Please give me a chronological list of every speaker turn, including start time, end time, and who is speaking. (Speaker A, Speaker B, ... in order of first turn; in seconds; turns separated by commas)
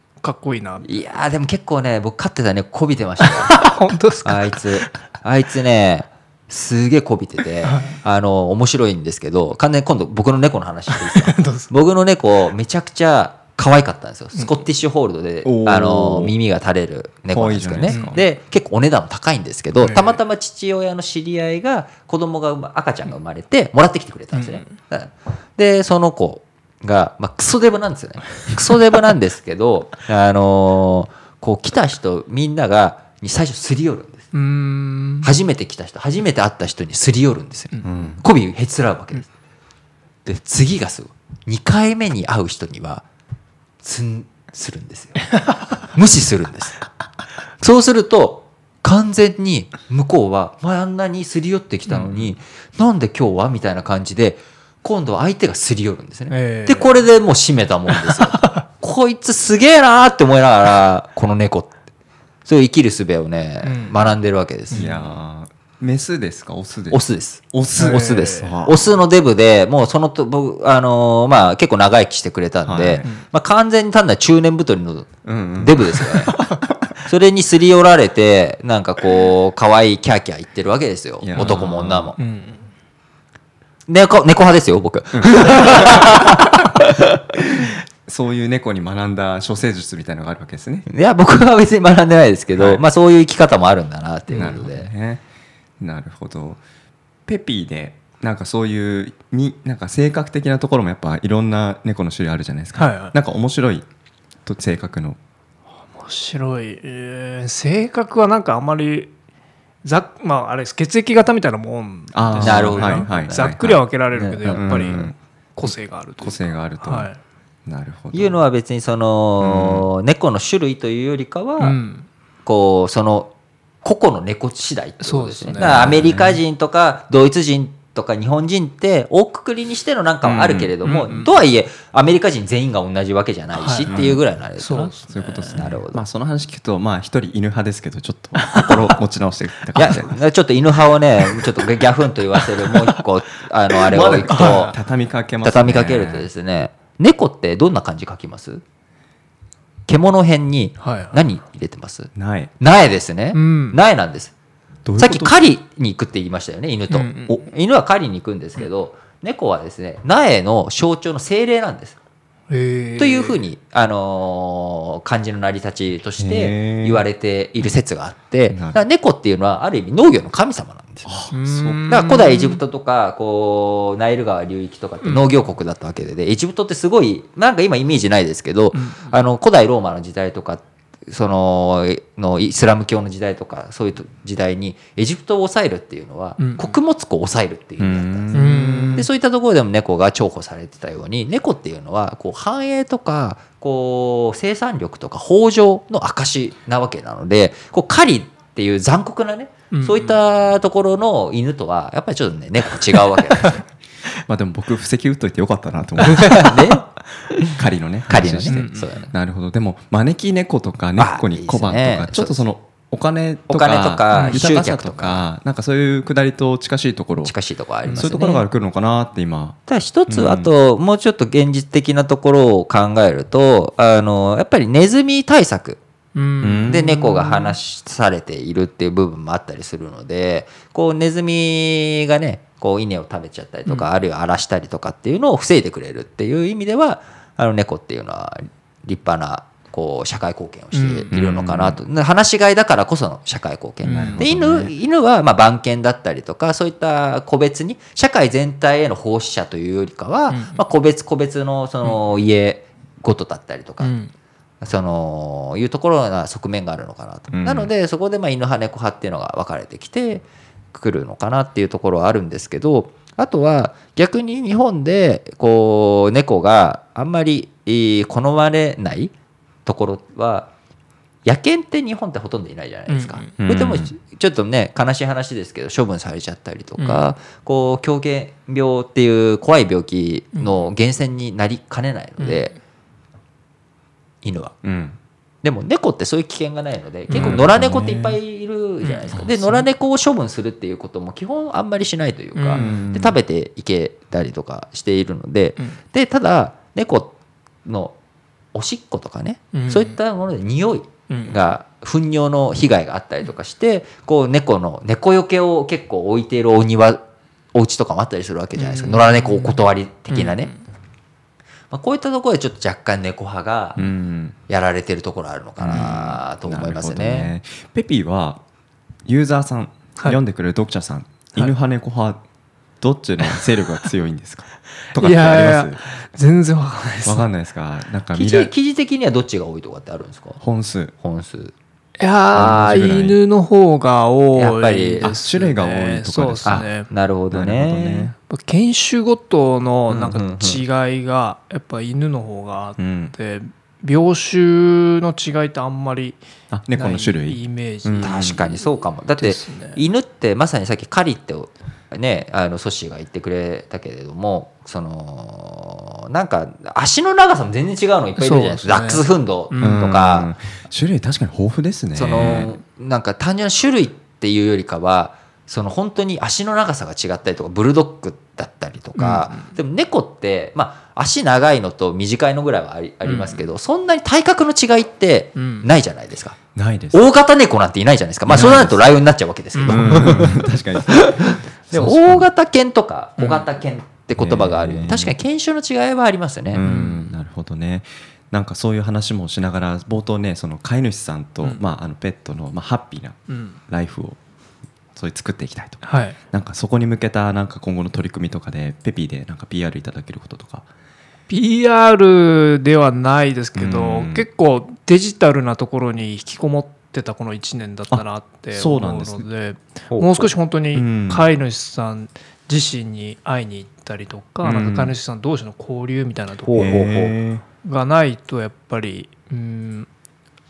Speaker A: 0.2-0.9, Speaker B: 0.8-3.6, Speaker A: 3.2-4.9, Speaker B: 4.2-34.2, Speaker A: 7.6-8.0, Speaker A: 10.9-11.7, Speaker C: 15.4-16.3, Speaker C: 17.3-18.2, Speaker A: 17.9-18.2, Speaker A: 19.8-20.2, Speaker A: 24.3-24.7, Speaker A: 34.3-35.3, Speaker B: 35.2-39.3, Speaker C: 37.8-38.2, Speaker B: 40.2-43.0, Speaker B: 43.8-45.3, Speaker B: 45.8-46.8, Speaker B: 47.6-61.7, Speaker A: 56.3-56.9, Speaker A: 57.9-58.6, Speaker B: 62.4-64.9, Speaker A: 63.6-64.0, Speaker A: 64.7-65.2, Speaker C: 64.7-67.0, Speaker B: 66.9-76.4, Speaker C: 67.5-68.8, Speaker A: 67.8-68.5, Speaker C: 72.6-73.1, Speaker C: 75.2-76.5, Speaker B: 77.0-82.2, Speaker C: 81.2-82.1, Speaker A: 82.2-82.6, Speaker B: 83.9-87.5, Speaker C: 85.1-86.2, Speaker C: 88.0-90.8, Speaker B: 90.9-94.9, Speaker C: 92.5-92.8, Speaker C: 94.3-95.2, Speaker C: 95.8-96.6, Speaker C: 97.3-103.8, Speaker A: 102.7-103.1, Speaker C: 104.5-105.2, Speaker A: 106.0-109.1, Speaker A: 109.8-117.2, Speaker C: 112.1-113.9, Speaker B: 112.4-113.5, Speaker B: 114.1-114.5, Speaker C: 114.4-115.1, Speaker C: 116.2-117.1, Speaker C: 117.7-118.4, Speaker B: 118.1-121.8, Speaker C: 119.4-119.9, Speaker A: 121.6-122.0, Speaker B: 122.4-123.3, Speaker B: 123.8-134.9, Speaker A: 125.0-126.0, Speaker C: 125.5-126.4, Speaker C: 130.2-130.7, Speaker A: 130.8-131.3, Speaker A: 133.5-133.9, Speaker C: 133.9-134.2, Speaker A: 134.6-135.6, Speaker C: 135.1-140.1, Speaker B: 135.5-136.0, Speaker A: 138.4-138.8, Speaker B: 139.8-144.7, Speaker C: 143.9-146.3, Speaker A: 144.2-144.7, Speaker B: 145.4-148.6, Speaker B: 149.9-154.3, Speaker A: 150.8-151.2, Speaker C: 152.1-152.5, Speaker A: 153.3-153.8, Speaker C: 154.8-155.3, Speaker B: 155.0-161.9, Speaker A: 156.9-157.4, Speaker A: 162.5-163.4, Speaker B: 163.0-171.1, Speaker C: 166.2-167.0, Speaker C: 168.5-168.8, Speaker C: 171.1-172.0, Speaker A: 171.3-172.6, Speaker B: 171.9-188.4, Speaker A: 175.0-175.3, Speaker A: 178.7-179.1, Speaker A: 186.4-186.7, Speaker C: 187.8-189.1, Speaker A: 188.3-189.1, Speaker B: 188.9-203.6, Speaker A: 199.7-200.2, Speaker C: 204.3-206.6, Speaker B: 206.0-206.8, Speaker C: 207.6-217.3, Speaker B: 208.1-209.1, Speaker A: 208.2-209.1, Speaker B: 211.0-212.4, Speaker B: 213.5-215.3, Speaker A: 214.1-214.4, Speaker B: 217.2-218.4, Speaker C: 217.9-219.6, Speaker B: 219.7-225.8, Speaker C: 220.1-220.5, Speaker A: 226.1-227.6, Speaker C: 226.4-226.9, Speaker B: 226.7-253.9, Speaker A: 240.7-241.1, Speaker C: 241.1-241.8, Speaker A: 243.8-244.2, Speaker C: 243.9-244.7, Speaker A: 250.3-250.6, Speaker A: 253.8-254.1, Speaker B: 254.6-269.1, Speaker C: 257.3-257.7, Speaker B: 269.6-270.5, Speaker B: 271.2-282.5, Speaker A: 272.9-273.4, Speaker C: 273.4-273.9, Speaker A: 276.8-277.0, Speaker A: 282.2-282.5, Speaker B: 284.2-284.5, Speaker C: 284.6-285.0, Speaker B: 285.4-297.1, Speaker A: 287.1-287.5, Speaker C: 287.1-288.2, Speaker A: 288.8-289.6, Speaker A: 292.3-292.7, Speaker C: 292.5-293.2, Speaker B: 297.6-297.9, Speaker B: 298.5-307.0, Speaker A: 299.5-299.9, Speaker A: 301.1-301.4, Speaker B: 307.5-310.5, Speaker A: 308.6-310.6, Speaker B: 311.7-313.8, Speaker C: 313.8-314.4, Speaker B: 314.5-317.3, Speaker C: 315.6-318.4, Speaker C: 319.1-322.2, Speaker C: 322.8-325.8, Speaker A: 325.0-327.2, Speaker C: 327.0-328.5, Speaker B: 328.1-330.4, Speaker C: 330.4-330.9, Speaker B: 331.0-331.5, Speaker A: 332.0-336.9, Speaker C: 332.3-333.2, Speaker B: 334.3-335.1, Speaker C: 335.0-336.7, Speaker B: 336.4-338.1, Speaker C: 337.3-338.1, Speaker A: 338.3-346.2, Speaker B: 339.9-340.6, Speaker C: 342.8-343.1, Speaker C: 346.5-348.6, Speaker A: 346.7-348.1, Speaker B: 348.0-360.3, Speaker A: 349.2-349.8, Speaker A: 358.2-359.8, Speaker C: 359.6-362.5, Speaker B: 361.9-376.4, Speaker A: 368.9-369.5, Speaker A: 373.0-373.4, Speaker A: 375.4-375.7, Speaker C: 376.5-377.1, Speaker B: 376.9-386.6, Speaker C: 378.3-378.8, Speaker A: 379.5-380.4, Speaker C: 379.6-382.3, Speaker A: 383.2-383.5, Speaker C: 384.2-385.1, Speaker C: 386.5-394.2, Speaker A: 386.6-387.1, Speaker A: 393.3-393.6, Speaker C: 394.9-400.6, Speaker A: 395.8-396.1, Speaker A: 401.3-416.9, Speaker C: 403.5-404.3, Speaker C: 407.9-409.3, Speaker B: 409.9-410.3, Speaker C: 410.7-411.3, Speaker C: 414.4-414.9, Speaker B: 416.4-417.1, Speaker C: 416.5-417.4, Speaker A: 417.6-419.9